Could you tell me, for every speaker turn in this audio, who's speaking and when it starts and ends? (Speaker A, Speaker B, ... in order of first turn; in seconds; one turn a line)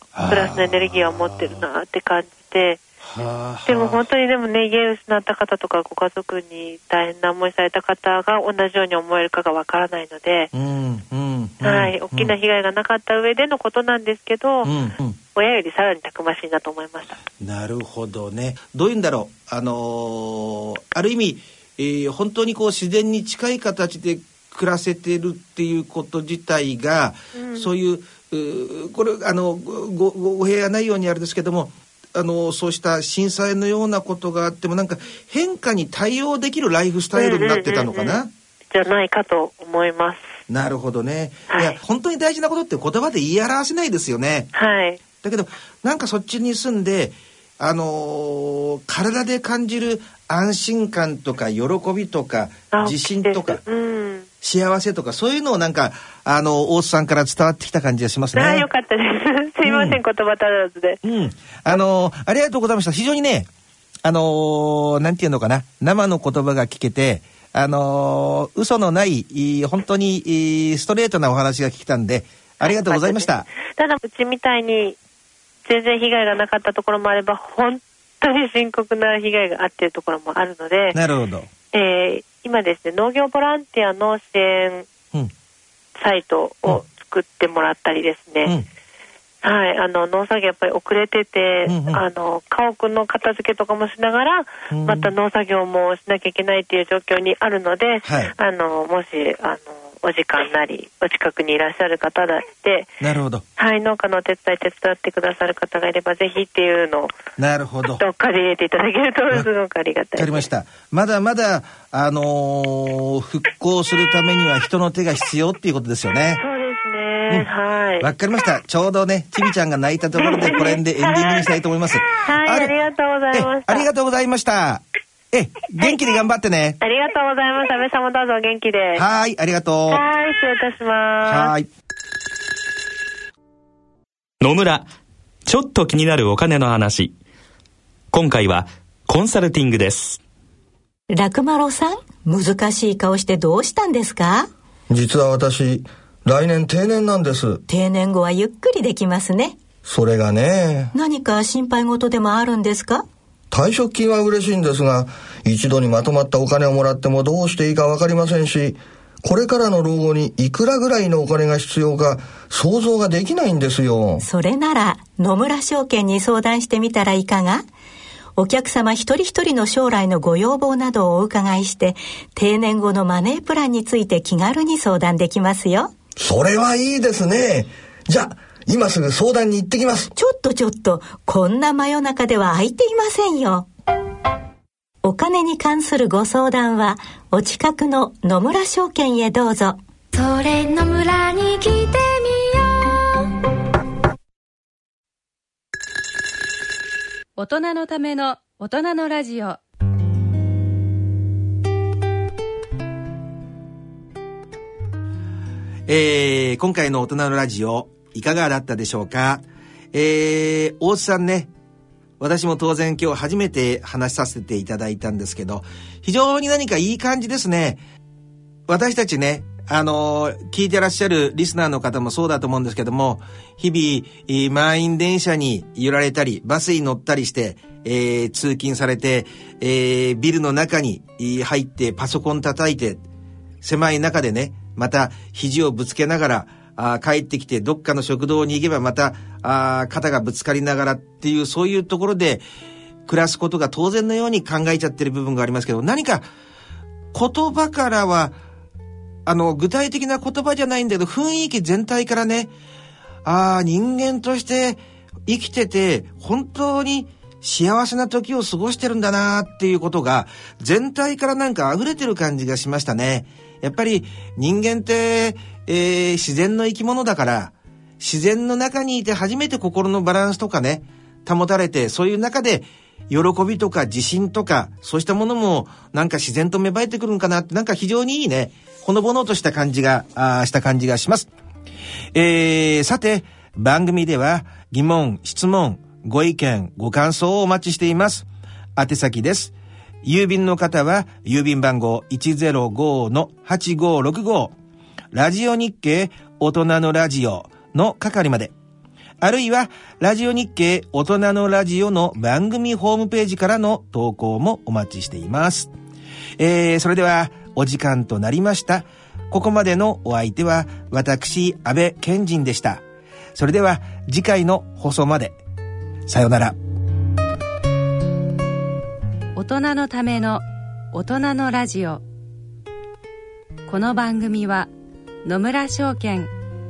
Speaker A: 0.1-1.6
Speaker B: 0.3-2.8
Speaker A: 3.0-4.1
Speaker B: 3.6-10.5
Speaker A: 10.5-12.3
Speaker B: 11.6-14.7
Speaker A: 14.6-15.2
Speaker B: 15.3-17.2
Speaker A: 17.4-38.3
Speaker B: 27.3-27.7
Speaker B: 37.1-40.3
Speaker A: 40.5-44.5
Speaker B: 41.5-41.8
Speaker B: 44.5-45.0
Speaker A: 45.2-53.6
Speaker B: 52.7-54.3
Speaker A: 54.4-58.7
Speaker B: 58.3-61.0
Speaker A: 59.6-60.0
Speaker A: 61.0-63.5
Speaker A: 64.0-73.5
Speaker B: 72.6-75.0
Speaker B: 75.6-81.0
Speaker A: 80.9-81.5
Speaker B: 81.7-84.9
Speaker B: 86.0-88.5
Speaker B: 89.4-102.9
Speaker A: 91.7-92.0
Speaker A: 94.7-95.1
Speaker A: 98.0-98.3
Speaker A: 103.0-103.4
Speaker B: 103.6-107.1
Speaker A: 107.4-108.0
Speaker B: 108.0-110.5
Speaker A: 110.2-116.4
Speaker B: 116.4-118.1
Speaker A: 117.3-122.7
Speaker B: 120.1-121.5
Speaker B: 122.1-123.9
Speaker A: 123.3-126.8
Speaker B: 126.8-129.0
Speaker A: 128.9-130.0
Speaker B: 129.9-131.5
Speaker A: 131.2-131.7
Speaker C: 134.4-134.9
Speaker C: 135.4-137.2
Speaker C: 138.1-140.2
Speaker D: 141.1-144.5
Speaker E: 144.9-147.6
Speaker D: 147.7-149.6
Speaker E: 149.8-150.9
Speaker D: 150.9-153.1
Speaker E: 153.5-164.2
Speaker D: 164.2-167.6
Speaker D: 168.4-175.9
Speaker E: 176.2-180.1
Speaker D: 180.1-183.7
Speaker D: 185.0-189.8
Speaker F: 190.1-193.3
Speaker G: 197.4-199.6
Speaker A: 205.9-211.5
Speaker A: 212.2-217.8
Speaker A: 218.7-233.0
Speaker A: 233.6-242.4
Speaker A: 243.1-246.2
Speaker A: 247.1-248.4
Speaker A: 249.2-252.5
Speaker A: 253.2-281.3
Speaker A: 282.1-294.5
Speaker A: 295.1-298.5
Speaker A: 299.2-305.7
Speaker A: 306.4-312.8
Speaker A: 313.3-315.4
Speaker A: 316.1-316.6
Speaker G: 319.4-322.0
Speaker G: 323.7-324.7
Speaker G: 325.2-326.3